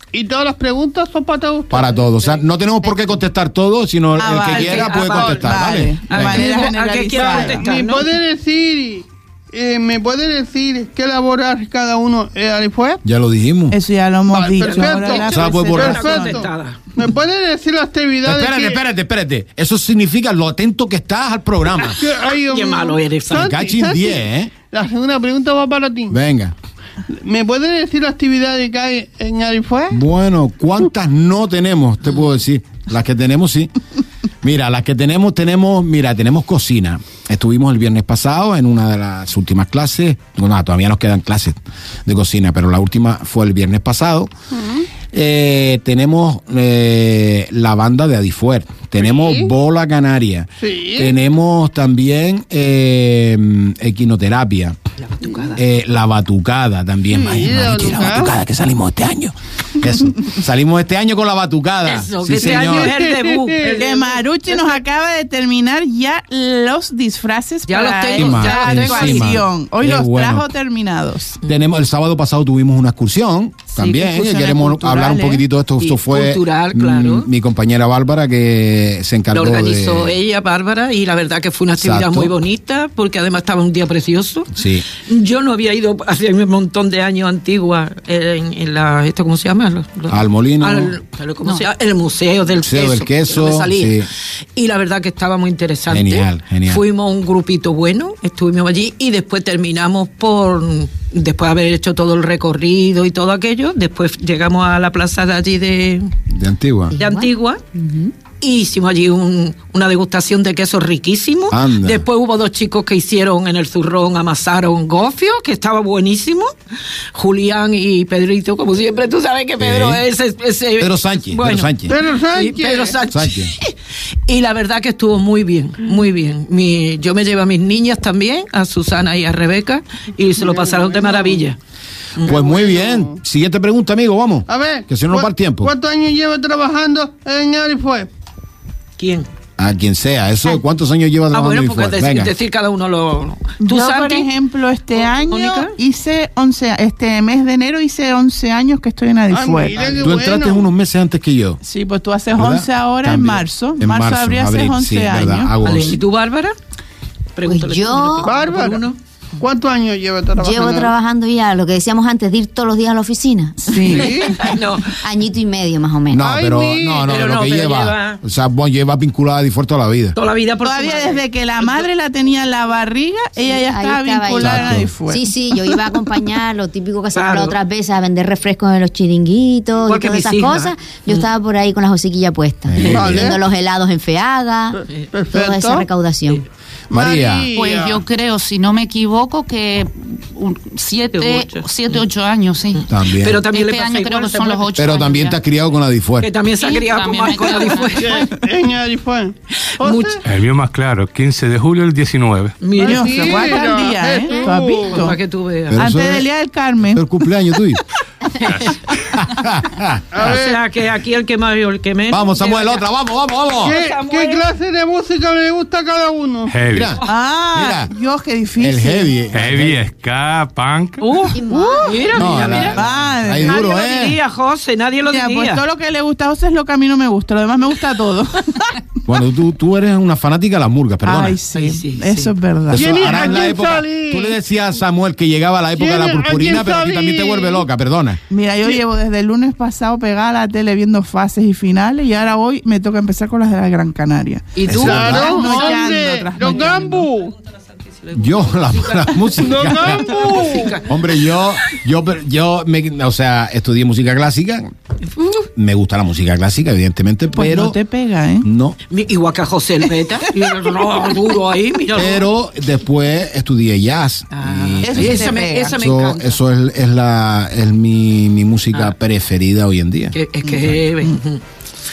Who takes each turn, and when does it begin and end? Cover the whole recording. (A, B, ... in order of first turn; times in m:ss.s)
0:00.1-0:02.4 A
0:01.7-0:06.5 B
0:04.2-0:07.7 C
0:04.5-0:08.1 D
0:07.2-0:13.0 A
0:13.0-0:13.8 B
0:13.7-0:16.4 C
0:14.3-0:18.8 A
0:14.6-0:16.8 D
0:15.3-0:15.9 B
0:18.2-0:22.0 B
0:22.0-0:26.2 A
0:22.5-0:23.6 D
0:23.3-0:24.5 B
0:26.1-0:26.5 B
0:27.1-0:30.0 A
0:29.9-0:33.7 B
0:34.4-0:44.3 B
0:44.5-0:44.9 A
0:45.1-0:54.8 B
0:49.0-0:49.5 A
0:50.6-0:51.2 A
0:55.0-0:55.6 D
0:55.6-1:02.9 B
0:57.1-0:58.3 A
1:01.8-1:03.9 D
1:02.4-1:04.6 A
1:03.8-1:11.4 C
1:07.7-1:09.3 D
1:08.2-1:10.5 B
1:11.4-1:20.2 B
1:13.8-1:14.2 D
1:14.0-1:15.4 C
1:15.8-1:17.3 D
1:19.3-1:34.0 D
1:21.8-1:22.3 B
1:24.5-1:24.8 B
1:30.1-1:31.0 B
1:32.6-1:34.1 B
1:34.6-1:46.1 D
1:35.9-1:36.8 B
1:46.3-1:47.0 B
1:46.9-1:48.1 E
1:47.0-1:47.6 D
1:48.4-1:56.5 D
1:51.5-1:52.0 B
1:57.1-2:03.7 D
1:59.6-2:00.0 B
2:00.8-2:01.9 B
2:01.9-2:03.0 A
2:03.1-2:03.5 B
2:04.3-2:11.6 D
2:10.4-2:11.4 A
2:12.2-2:13.2 A
2:12.2-2:15.7 B
2:14.5-2:18.1 A
2:19.0-2:19.3 D
2:19.6-2:22.3 B
2:21.3-2:24.3 D
2:23.6-2:29.8 C
2:25.0-2:25.8 D
2:29.3-2:30.7 A
2:29.8-2:30.0 D
2:30.0-2:31.6 B
2:31.6-2:35.5 C
2:32.3-2:36.0 B
2:35.6-2:36.6 D
2:37.4-2:39.0 D
2:37.4-2:38.3 E
2:38.2-2:38.9 A
2:39.4-2:40.9 A
2:40.4-2:43.8 E
2:43.6-2:44.2 C
2:43.8-2:44.5 A
2:43.9-2:44.9 D
2:45.0-2:46.3 E
2:46.1-2:50.2 B
2:46.2-2:47.1 A
2:47.0-2:48.2 D
2:50.2-2:51.8 D
2:50.6-2:55.3 C
2:53.5-3:04.8 E
2:54.4-2:54.9 B
2:57.1-2:57.6 D
2:59.8-3:01.3 D
3:02.7-3:03.3 B
3:02.9-3:03.4 A
3:05.1-3:05.9 A
3:05.3-3:06.4 E
3:06.9-3:08.0 A
3:06.9-3:07.5 B
3:07.5-3:15.4 F
3:11.1-3:12.0 D
3:12.8-3:14.7 D
3:12.9-3:13.4 B
3:14.8-3:16.3 B
3:16.2-3:18.3 D
3:16.6-3:18.2 F
3:18.0-3:20.2 A
3:19.7-3:20.2 D
3:20.2-3:22.6 G
3:22.6-3:23.7 D
3:22.8-3:25.1 A
3:22.8-3:25.2 C
3:24.9-3:25.8 D
3:25.7-3:26.3 B
3:25.8-3:27.0 C
3:26.9-3:27.8 B
3:29.1-3:30.2 B
3:30.1-3:30.6 A
3:30.2-3:32.8 D
3:32.1-3:33.8 B
3:33.6-3:36.5 A
3:33.6-3:34.5 D
3:36.5-3:37.0 G
3:36.7-3:37.0 B
3:37.0-3:39.2 C
3:37.5-3:37.9 B
3:38.6-3:39.8 B
3:39.3-3:41.0 G
3:41.0-3:42.8 D
3:41.3-3:42.1 E
3:41.5-3:43.6 C
3:42.2-3:44.2 B
3:43.4-3:45.6 D
3:45.1-3:48.8 C
3:49.0-3:51.4 B
3:51.0-3:53.0 C
3:51.5-3:52.3 D
3:52.7-3:58.2 B
3:52.7-3:54.4 A
3:55.8-3:57.7 A
3:58.3-4:07.1 C
4:04.5-4:05.8 D
4:04.7-4:05.4 B
4:04.7-4:07.4 A
4:06.5-4:10.9 D
4:08.1-4:10.2 B
4:09.4-4:10.8 A
4:10.8-4:14.7 B
4:15.2-4:15.4 D
4:15.5-4:17.8 B
4:17.3-4:18.5 C
4:18.4-4:18.8 B
4:18.9-4:22.3 D
4:21.9-4:30.2 B
4:24.3-4:26.4 D
4:24.8-4:25.8 C
4:30.1-4:31.4 D